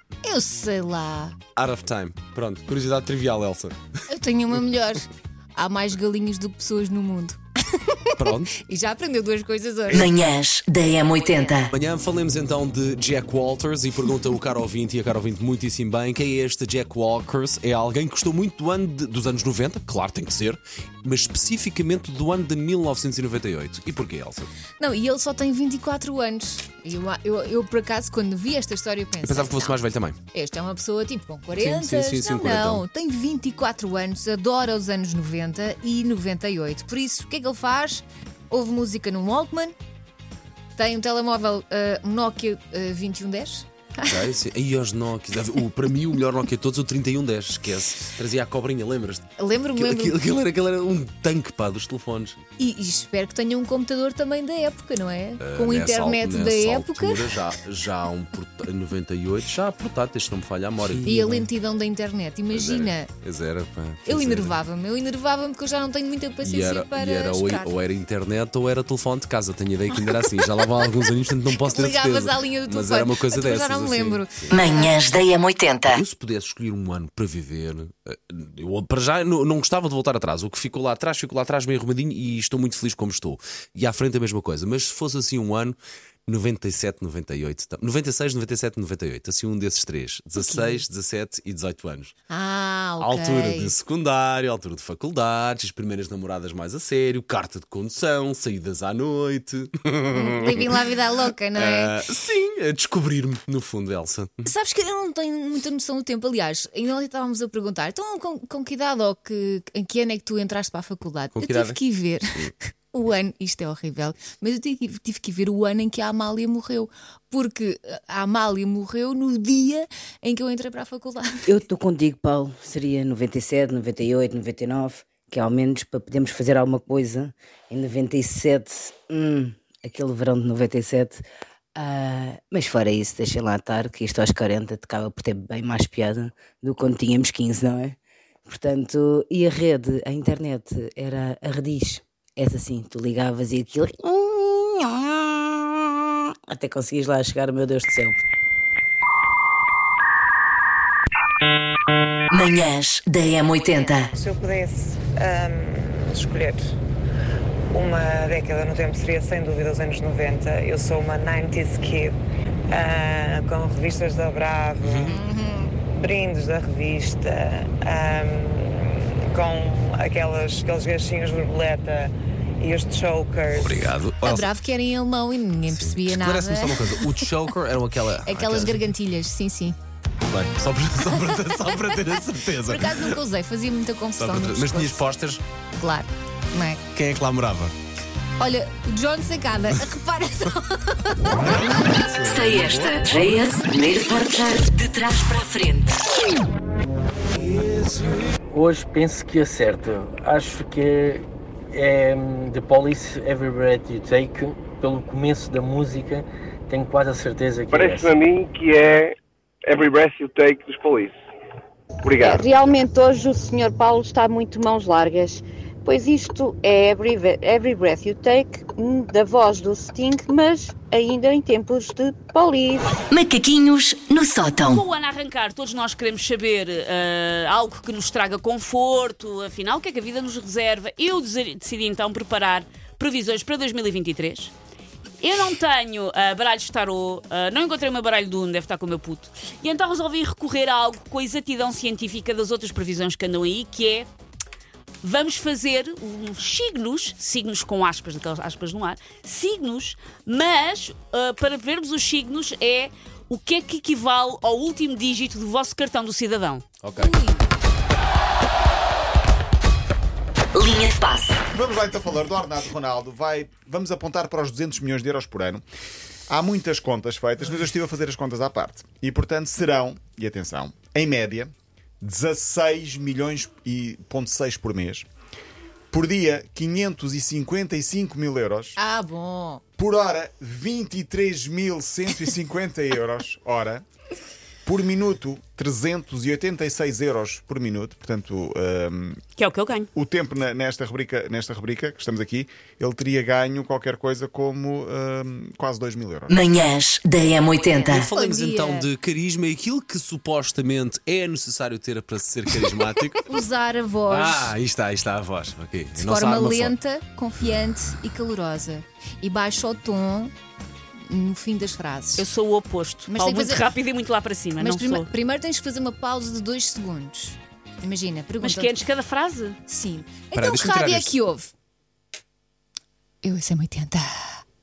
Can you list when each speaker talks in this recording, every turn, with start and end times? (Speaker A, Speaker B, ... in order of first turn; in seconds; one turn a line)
Speaker A: 0.2-1.4
Speaker B: 1.6-3.8
Speaker A: 4.1-10.1
Speaker B: 8.2-8.6
Speaker C: 9.9-11.7
Speaker B: 11.7-24.5
Speaker A: 24.8-29.8
Speaker B: 29.2-30.2
Speaker A: 30.3-39.7
Speaker B: 31.6-32.9
Speaker A: 40.8-44.3
Speaker B: 44.1-52.4
Speaker A: 49.4-50.2
Speaker A: 52.6-57.3
Speaker B: 55.4-61.2
Speaker A: 61.0-63.1
Speaker B: 62.5-64.6
Speaker A: 64.1-67.8
Speaker B: 66.4-74.6
Speaker A: 71.5-75.0
Speaker C: 74.5-76.0
Speaker B: 75.9-92.1
Speaker A: 90.3-90.8
Speaker A: 92.3-93.8
Speaker B: 93.0-100.9
Speaker A: 100.1-102.0
Speaker B: 101.5-104.5
Speaker A: 104.5-121.5
Speaker B: 111.3-111.8
Speaker D: 121.5-131.2
Speaker D: 131.8-137.9
Speaker D: 138.5-144.9
Speaker D: 146.5-148.2
Speaker C: 152.3-154.1
Speaker E: 154.1-156.8
Speaker E: 157.7-162.2
Speaker E: 162.7-165.2
Speaker B: 164.8-165.2
Speaker A: 165.1-165.7
Speaker E: 165.8-173.9
Speaker B: 173.5-174.5
Speaker A: 174.2-177.4
Speaker B: 175.8-178.9
Speaker A: 178.2-179.8
Speaker B: 180.2-183.2
Speaker A: 182.6-185.1
Speaker B: 184.2-185.4
Speaker A: 185.8-186.8
Speaker B: 186.9-187.8
Speaker A: 188.4-191.5
Speaker F: 191.5-193.0
Speaker C: 192.2-196.0
Speaker G: 197.4-208.2
Speaker H: 207.7-211.1
Speaker H: 212.0-212.8
Speaker I: 212.2-222.9
Speaker C: 223.1-224.8
Speaker J: 224.6-234.5
Speaker J: 235.2-244.1
Speaker J: 245.0-256.7
Speaker B: 256.8-257.1
Speaker A: 257.0-257.5
Speaker C: 260.6-261.4
Speaker F: 261.5-265.6
Speaker F: 266.3-275.1
Speaker F: 275.9-278.8
Speaker A: 278.8-279.6
Speaker F: 279.8-283.8
Speaker F: 284.6-289.2
Speaker J: 289.4-289.9
Speaker F: 289.9-296.4
Speaker C: 296.3-298.1
Speaker B: 297.9-303.3
Speaker A: 297.9-298.9
Speaker A: 303.3-304.5
Speaker B: 304.1-306.8
Speaker A: 306.0-310.3
Speaker A: 311.1-312.3
Speaker J: 312.2-315.1
Speaker A: 313.1-313.7
Speaker A: 314.6-318.7
Speaker J: 318.4-319.6
Speaker A: 319.7-321.5
Speaker B: 320.3-321.2
Speaker A: 323.2-324.4